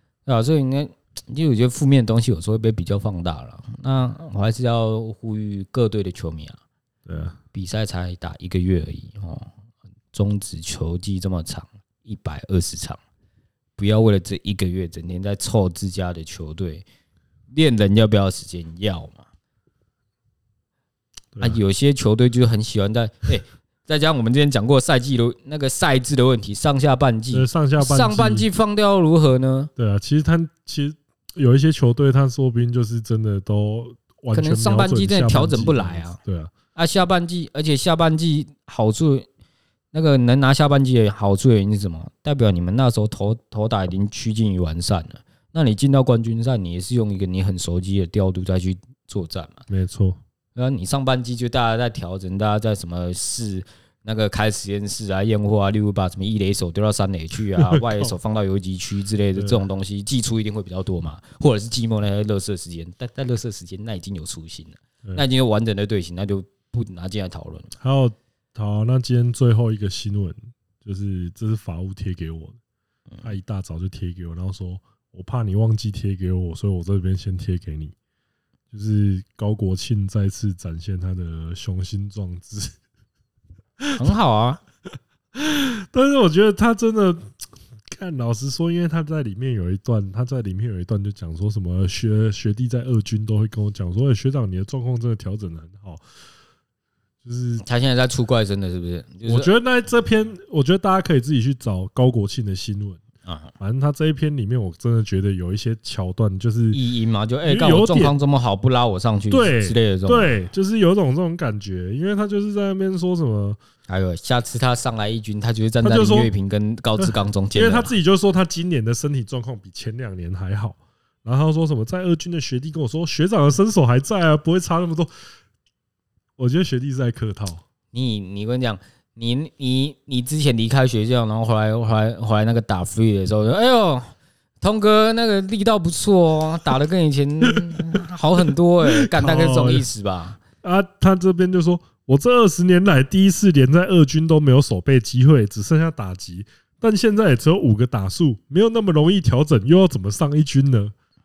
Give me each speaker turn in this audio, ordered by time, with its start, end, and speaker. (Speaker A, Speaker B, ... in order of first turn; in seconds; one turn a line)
Speaker A: 0.2-6.6
Speaker B: 7.0-7.4
Speaker A: 7.5-9.5
Speaker A: 10.1-13.0
Speaker A: 13.8-16.8
Speaker A: 17.5-19.2
Speaker A: 21.4-29.7
Speaker B: 27.3-28.4
Speaker B: 29.8-36.5
Speaker A: 34.3-36.2
Speaker A: 36.7-39.3
Speaker A: 39.9-49.6
Speaker B: 49.7-50.2
Speaker A: 50.5-67.7
Speaker B: 57.5-58.1
Speaker B: 59.4-59.6
Speaker B: 67.8-72.6
Speaker B: 73.2-77.9
Speaker B: 78.7-82.8
Speaker A: 84.0-84.6
Speaker B: 85.3-87.3
Speaker B: 87.9-96.0
Speaker B: 97.2-97.6
Speaker A: 97.6-99.5
Speaker B: 99.2-103.0
Speaker A: 103.2-103.5
Speaker B: 103.6-106.8
Speaker A: 106.7-110.3
Speaker B: 107.4-108.1
Speaker B: 109.3-113.6
Speaker A: 113.9-118.0
Speaker B: 115.8-116.3
Speaker B: 117.0-125.1
Speaker B: 126.4-127.6
Speaker A: 127.9-134.1
Speaker A: 134.6-140.4
Speaker B: 137.6-137.9
Speaker B: 138.8-139.9
Speaker B: 140.6-150.9